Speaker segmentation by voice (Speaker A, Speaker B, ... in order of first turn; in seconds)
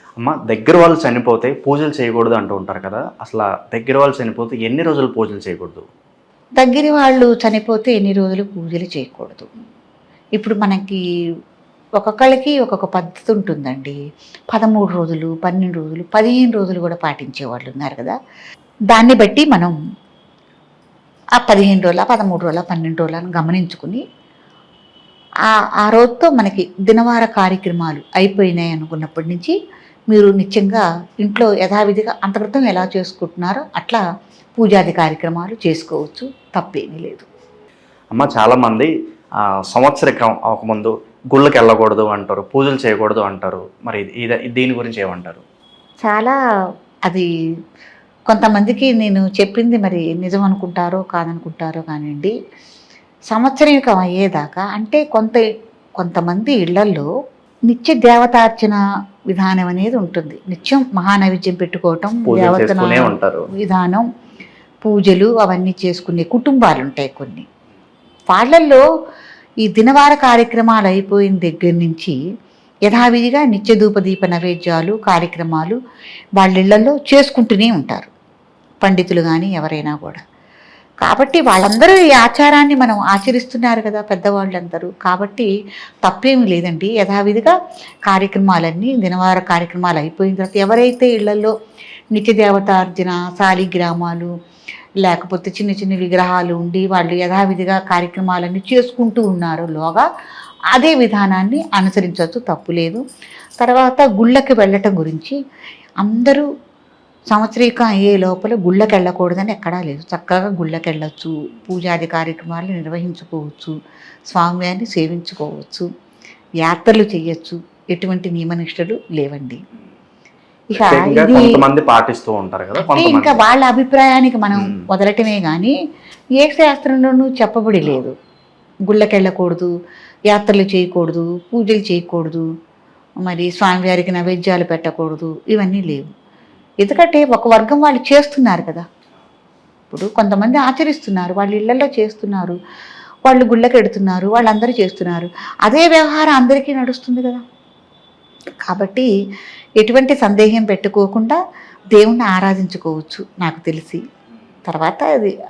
Speaker A: 0.2-5.9, 38.1-45.4, 62.3-63.5, 120.8-123.4, 124.5-124.8
Speaker B: 6.6-9.5, 10.4-11.0, 12.0-14.0, 14.5-18.2, 18.9-19.8, 21.4-24.0, 25.5-29.5, 30.1-34.0, 34.6-37.3, 46.0-46.4, 48.3-52.3, 53.3-55.5, 56.0-57.1, 57.7-58.8, 59.3-64.0, 64.8-67.5, 68.3-68.8, 69.7-72.2, 72.9-75.8, 76.4-78.1, 78.8-80.2, 81.0-85.5, 86.0-87.5, 88.1-91.5, 92.1-94.3, 95.0-100.1, 100.7-103.0, 103.6-105.4, 106.0-106.5, 107.3-113.8, 114.3-115.9, 116.6-119.6, 120.7-121.6, 122.8-125.7, 126.4-128.2, 128.9-129.7, 130.3-132.5, 133.2-136.1, 136.8-138.9, 139.9-142.6, 143.2-147.4, 148.7-149.1, 149.8-151.4, 151.9-154.0, 154.7-155.3